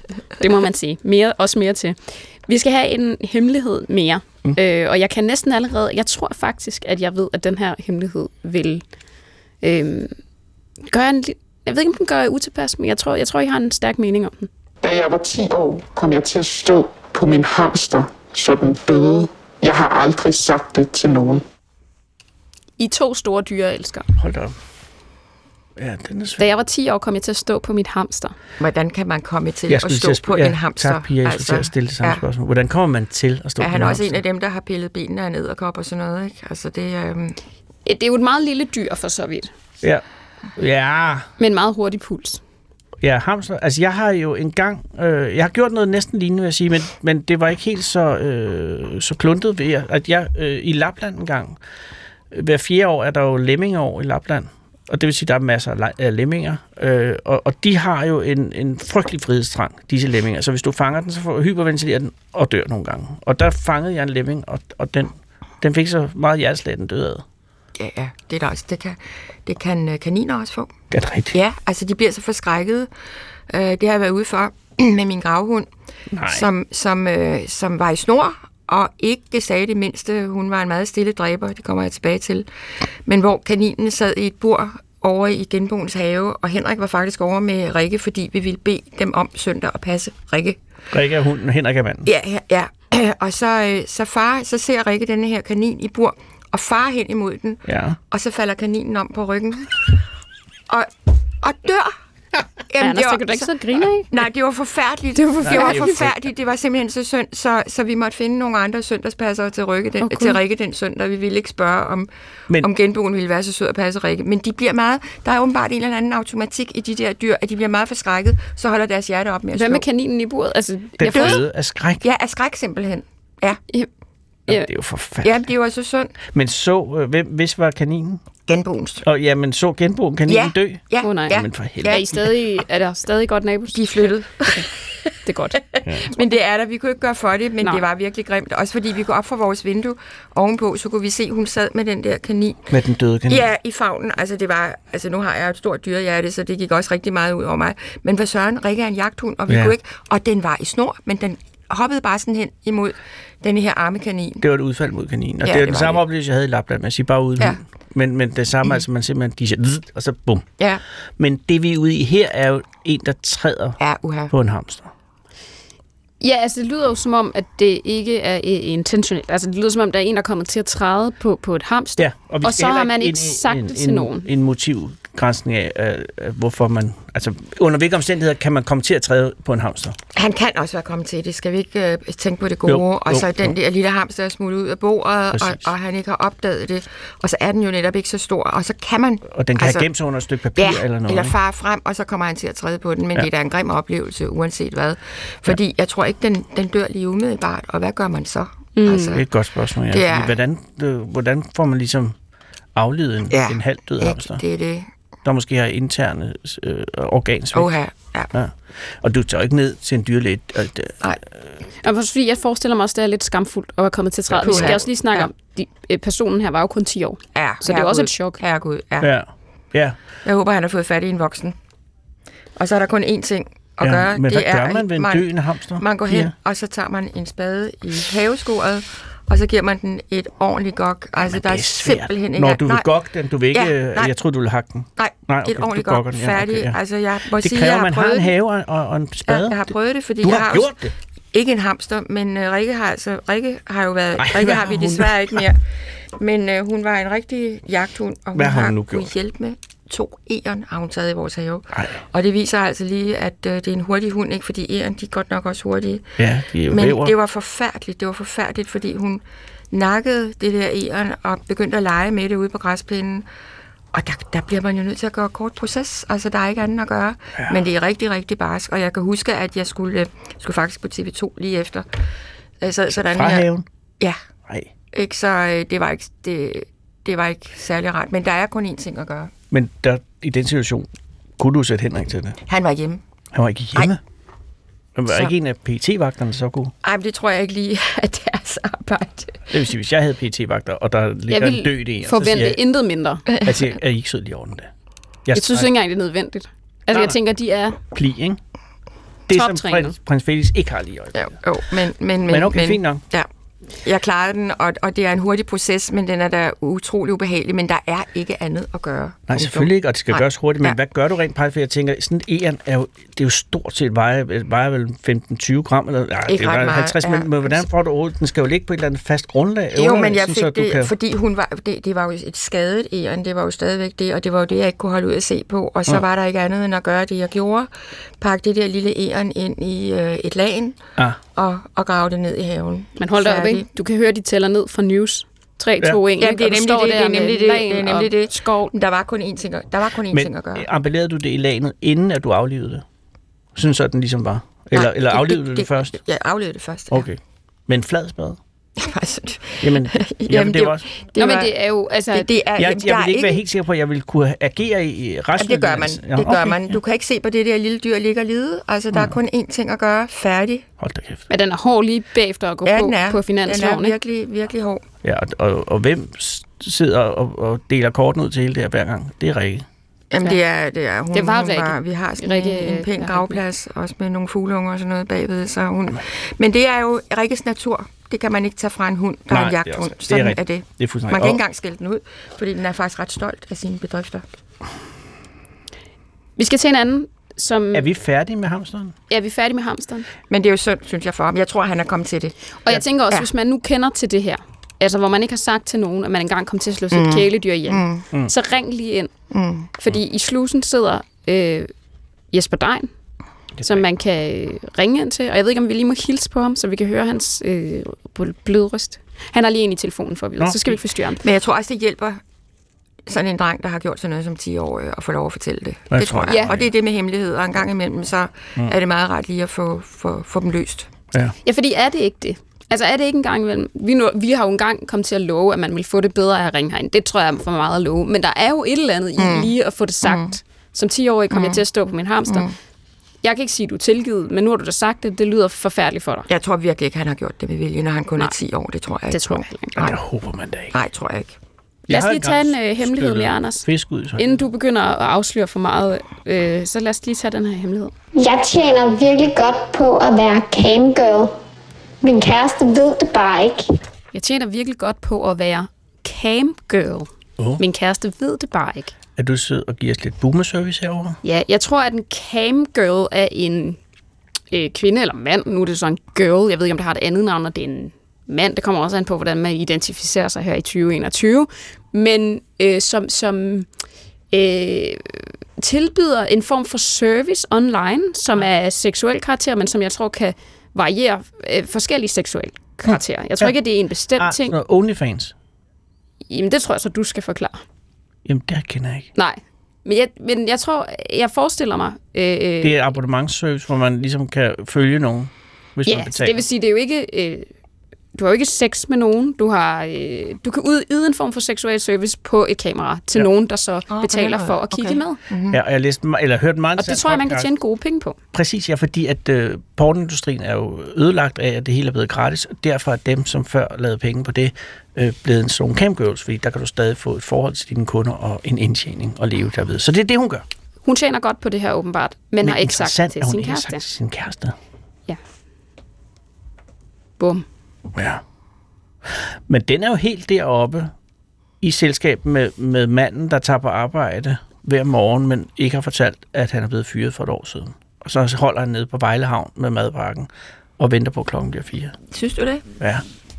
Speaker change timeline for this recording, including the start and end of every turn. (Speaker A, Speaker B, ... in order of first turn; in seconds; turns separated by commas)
Speaker A: 0.4-8.8, Speaker A: 9.6-10.2, Speaker A: 10.9-14.5, Speaker B: 14.8-21.4, Speaker A: 22.8-24.1, Speaker C: 24.2-24.6, Speaker C: 25.8-26.4, Speaker A: 26.4-28.4, Speaker D: 28.6-32.2, Speaker C: 29.7-34.2, Speaker D: 33.6-37.4, Speaker A: 37.9-39.5, Speaker C: 40.6-41.3, Speaker A: 41.4-42.4, Speaker C: 43.0-51.6, Speaker C: 52.3-67.2, Speaker D: 67.8-70.7, Speaker C: 70.9-71.3, Speaker D: 71.3-72.9, Speaker D: 73.5-75.7, Speaker C: 76.1-76.5, Speaker D: 76.2-82.5, Speaker D: 83.1-90.6, Speaker C: 90.9-92.1, Speaker D: 92.0-100.0, Speaker C: 97.7-98.0, Speaker D: 100.7-102.0, Speaker D: 102.7-103.5, Speaker A: 102.8-104.1, Speaker D: 104.1-112.1, Speaker A: 105.1-106.0, Speaker C: 105.4-106.1, Speaker A: 110.0-110.4, Speaker D: 112.6-119.8, Speaker A: 119.5-121.4, Speaker C: 121.0-122.0, Speaker D: 121.1-121.4, Speaker D: 122.0-123.6, Speaker C: 124.5-125.5, Speaker D: 125.2-126.2, Speaker C: 126.3-128.2, Speaker D: 128.5-129.1, Speaker C: 129.0-132.3, Speaker D: 130.3-132.0, Speaker A: 131.0-134.7, Speaker D: 133.7-142.7, Speaker A: 135.2-135.6, Speaker C: 142.7-143.5, Speaker D: 143.3-154.4, Speaker C: 149.5-149.8, Speaker C: 154.4-160.5, Speaker D: 155.4-156.0, Speaker C: 161.2-163.8, Speaker D: 163.8-164.3, Speaker C: 164.3-164.9, Speaker A: 166.2-174.3, Speaker C: 172.0-180.0, Speaker D: 180.2-189.9, Speaker C: 182.6-183.6, Speaker C: 185.3-185.7, Speaker C: 189.3-191.3, Speaker D: 190.6-199.2, Speaker A: 198.8-199.2, Speaker C: 199.1-202.2, Speaker D: 199.9-200.3, Speaker C: 202.8-204.4, Speaker D: 203.3-204.9, Speaker C: 205.2-207.7, Speaker D: 207.5-208.3, Speaker C: 208.3-211.0, Speaker A: 211.8-218.4, Speaker C: 214.3-214.8, Speaker D: 214.4-215.2, Speaker D: 217.3-219.1, Speaker C: 219.0-220.0, Speaker D: 220.2-221.6, Speaker D: 222.6-232.9, Speaker C: 223.8-226.3, Speaker C: 231.2-236.8, Speaker D: 233.5-234.1, Speaker D: 235.0-238.3, Speaker C: 237.4-240.9, Speaker D: 239.3-240.8, Speaker D: 241.3-245.6, Speaker C: 244.2-245.4, Speaker D: 246.2-263.3, Speaker C: 248.3-249.1, Speaker C: 251.7-252.0, Speaker C: 256.2-257.1, Speaker D: 263.9-271.9, Speaker D: 272.6-273.5, Speaker C: 272.9-273.6, Speaker D: 274.9-279.3, Speaker C: 279.5-280.9, Speaker C: 281.4-282.4, Speaker D: 282.5-283.0, Speaker C: 283.3-284.0, Speaker C: 285.0-286.7, Speaker D: 285.1-285.3, Speaker D: 286.8-289.4, Speaker C: 289.5-292.6, Speaker A: 291.3-293.2, Speaker D: 293.3-293.6, Speaker C: 293.4-294.7, Speaker C: 295.2-295.7, Speaker A: 295.3-297.8, Speaker C: 296.9-297.2, Speaker C: 297.9-298.4, Speaker C: 299.3-301.3, Speaker A: 299.3-299.9, Speaker D: 301.1-303.3, Speaker C: 302.2-303.0, Speaker D: 303.8-310.8, Speaker C: 309.3-320.9, Speaker D: 316.3-317.6, Speaker D: 319.8-330.8, Speaker D: 331.4-333.7, Speaker A: 333.0-338.7, Speaker D: 336.2-340.6, Speaker C: 340.1-342.8, Speaker C: 343.6-346.0, Speaker D: 344.7-347.1, Speaker C: 346.9-348.4, Speaker D: 348.8-351.5, Speaker C: 349.6-350.9, Speaker A: 351.1-352.3, Speaker D: 352.1-353.4, Speaker C: 352.6-356.6, Speaker D: 355.4-360.6, Speaker C: 360.8-361.2, Speaker A: 361.3-363.9, Speaker D: 362.6-364.8, Speaker C: 365.0-369.7, Speaker D: 370.1-384.2, Speaker A: 371.1-373.4, Speaker C: 379.3-381.4, Speaker A: 386.4-387.9, Speaker C: 387.7-388.9, Speaker A: 389.1-390.1, Speaker D: 390.3-393.3, Speaker A: 392.6-399.1, Speaker D: 396.9-398.0, Speaker D: 399.3-399.7, Speaker A: 399.8-401.7, Speaker A: 402.3-402.9, Speaker C: 403.6-403.8, Speaker A: 403.7-411.2, Speaker C: 410.4-410.8, Speaker D: 411.2-412.2, Speaker D: 413.1-420.9, Speaker C: 415.9-416.7, Speaker A: 416.3-416.5, Speaker A: 421.4-432.4, Speaker D: 429.2-429.5, Speaker D: 430.0-430.3, Speaker D: 431.3-431.6, Speaker D: 432.2-432.5, Speaker A: 433.2-436.3, Speaker D: 436.3-440.0, Speaker A: 439.1-439.7, Speaker C: 439.8-440.8, Speaker D: 440.7-441.4, Speaker C: 441.9-444.5, Speaker A: 441.9-447.9, Speaker E: 448.2-451.3, Speaker E: 452.0-453.6, Speaker A: 454.1-458.9, Speaker C: 459.2-461.2, Speaker A: 461.2-463.8, Speaker A: 464.5-473.7, Speaker A: 474.3-484.6, Speaker C: 482.9-483.5, Speaker C: 484.2-485.3, Speaker A: 486.3-487.6, Speaker C: 488.2-489.1, Speaker A: 489.1-492.8, Speaker C: 492.6-496.4, Speaker A: 495.9-497.5, Speaker A: 498.1-505.2, Speaker D: 503.9-505.6, Speaker C: 505.5-507.5, Speaker A: 506.8-508.2, Speaker C: 508.3-520.5, Speaker A: 520.8-523.8, Speaker C: 522.4-524.5, Speaker A: 527.2-527.5, Speaker C: 528.0-528.2, Speaker C: 529.5-530.9, Speaker C: 531.6-542.0, Speaker D: 542.1-542.6